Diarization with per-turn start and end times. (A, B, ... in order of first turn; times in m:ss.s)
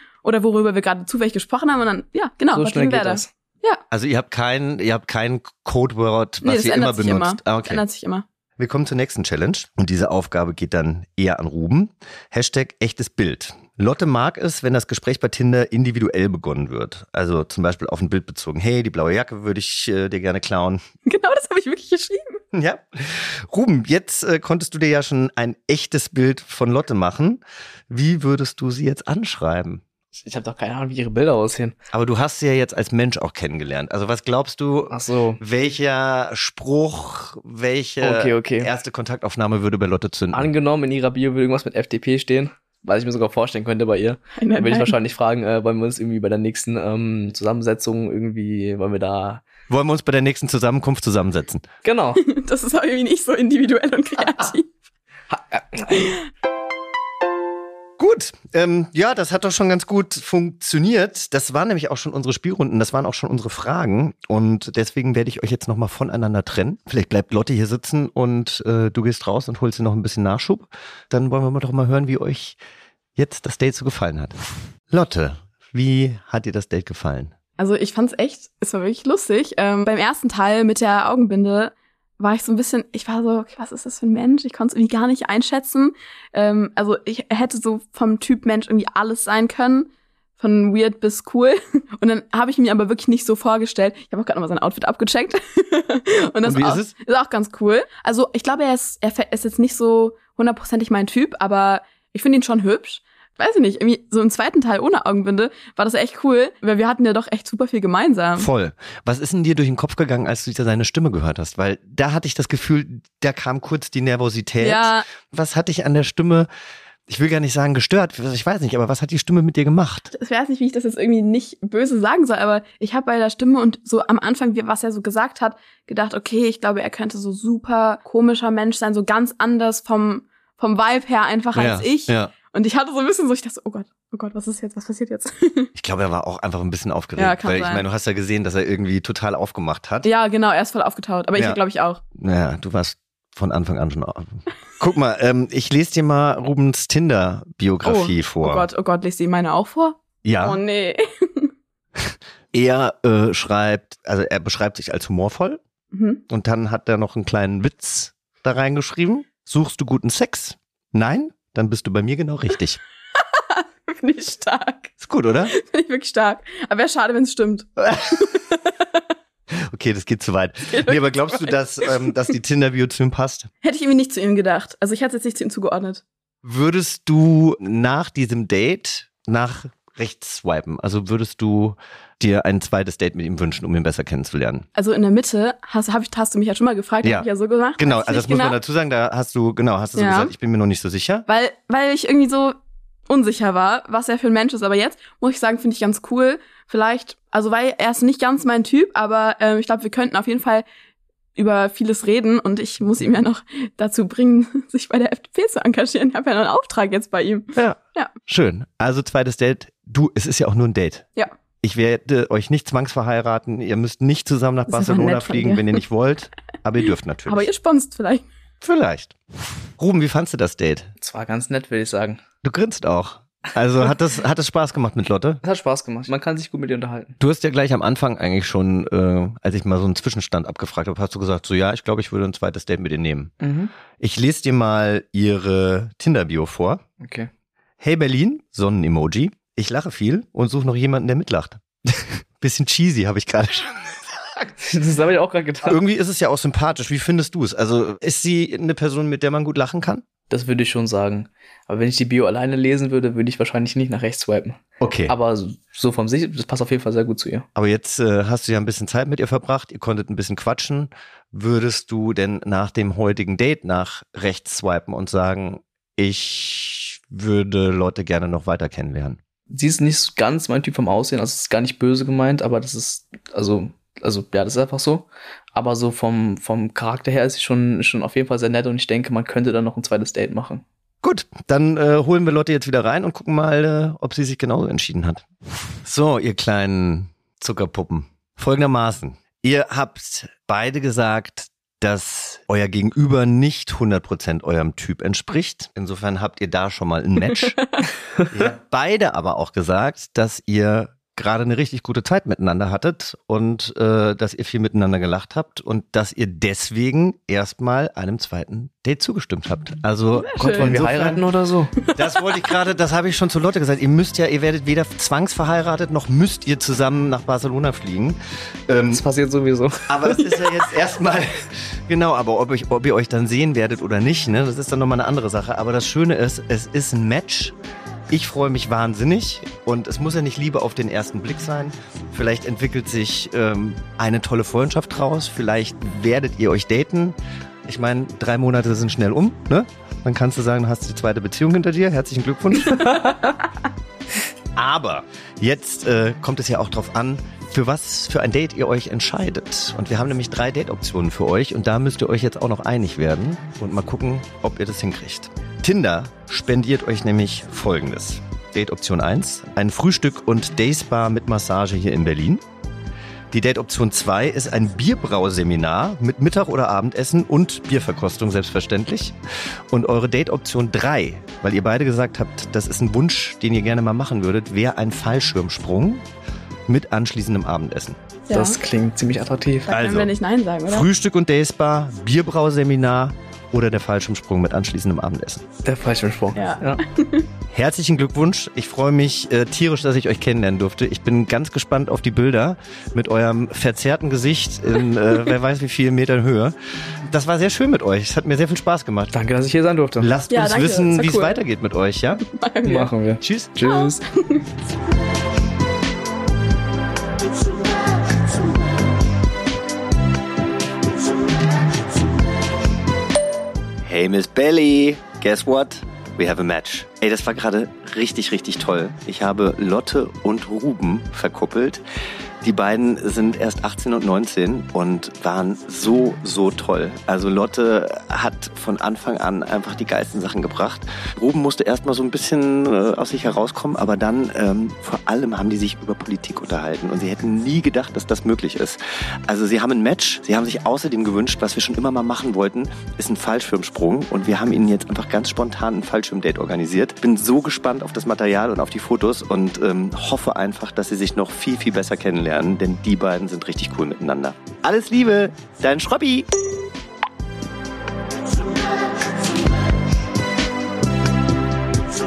0:00.2-0:03.8 A
0:02.5-0:03.3 B
0:03.9-0:07.8 C
0:06.4-0:08.2 A
0:08.6-0:20.8 C
0:21.1-0:22.4 A
0:22.5-0:29.8 C
0:30.2-0:31.8 B
0:31.9-0:40.5 C
0:34.9-0:35.4 B
0:38.0-0:38.7 B
0:40.3-0:49.4 B
0:44.4-0:45.0 A
0:49.7-0:51.6 C
0:51.8-0:52.2 B
0:52.2-0:54.7 A
0:55.3-0:56.2 B
0:58.0-1:12.6 C
1:13.2-1:14.3 C
1:14.9-1:17.3 C
1:17.6-1:48.5 A
1:36.4-1:36.9 C
1:48.4-1:56.5 C
1:54.6-1:55.1 A
1:57.1-2:00.1 C
2:00.1-2:15.7 A
2:11.6-2:12.3 C
2:15.8-2:20.1 C
2:17.2-2:17.8 A
2:20.0-2:22.0 A
2:22.2-2:28.7 C
2:27.8-2:31.5 A
2:30.2-2:30.6 C
2:32.0-2:35.6 C
2:35.9-2:36.2 A
2:36.3-2:42.8 C
2:43.2-2:44.9 A
2:45.0-2:45.5 C
2:45.5-2:49.0 A
2:47.8-2:48.2 C
2:49.5-2:53.5 C
2:50.7-2:52.2 A
2:53.6-2:56.0 A
2:56.4-3:04.7 C
3:04.8-3:08.6 A
3:07.8-3:11.3 C
3:10.0-3:10.3 A
3:11.3-3:12.6 A
3:13.1-3:20.6 A
3:21.4-3:28.1 A
3:27.6-3:31.1 C
3:31.6-3:37.5 C
3:34.7-3:35.8 A
3:37.3-3:38.3 A
3:38.6-3:39.2 C
3:39.8-3:40.9 C
3:41.0-3:42.2 B
3:42.4-3:45.4 C
3:45.4-3:47.2 B
3:47.2-3:53.3 C
3:53.4-3:53.7 B
3:54.0-3:56.8 C
3:57.0-3:57.3 B
3:57.8-4:04.6 C
4:04.6-4:05.8 B
4:05.6-4:10.0 C
4:10.3-4:17.5 B
4:14.8-4:15.2 C
4:17.6-4:29.2 C
4:29.5-4:40.6 B
4:41.0-4:45.3 C
4:45.8-4:57.6 C
4:58.3-5:11.2 C
5:10.1-5:10.8 A
5:10.5-5:11.8 B
5:11.8-5:12.3 A
5:11.9-5:18.2 C
5:18.7-5:19.0 C
5:18.9-5:20.0 B
5:19.9-5:27.6 C
5:20.2-5:20.6 A
5:28.1-5:37.2 C
5:37.7-5:43.1 C
5:42.7-5:43.3 B
5:44.6-6:02.4 C
6:03.3-6:09.2 C
6:09.7-6:16.0 C
6:16.7-6:18.0 C
6:18.3-6:18.6 A
6:18.3-6:19.7 B
6:19.7-6:20.9 A
6:19.7-6:20.1 C
6:20.7-6:25.5 C
6:25.6-6:26.8 B
6:26.4-6:27.3 A
6:27.5-6:39.1 C
6:39.1-6:40.1 B
6:40.0-6:42.2 C
6:40.3-6:41.4 A
6:42.2-6:42.9 A
6:42.6-6:44.0 B
6:43.2-6:43.5 C
6:43.6-6:44.4 A
6:53.8-7:01.8 C
7:02.4-7:36.3 C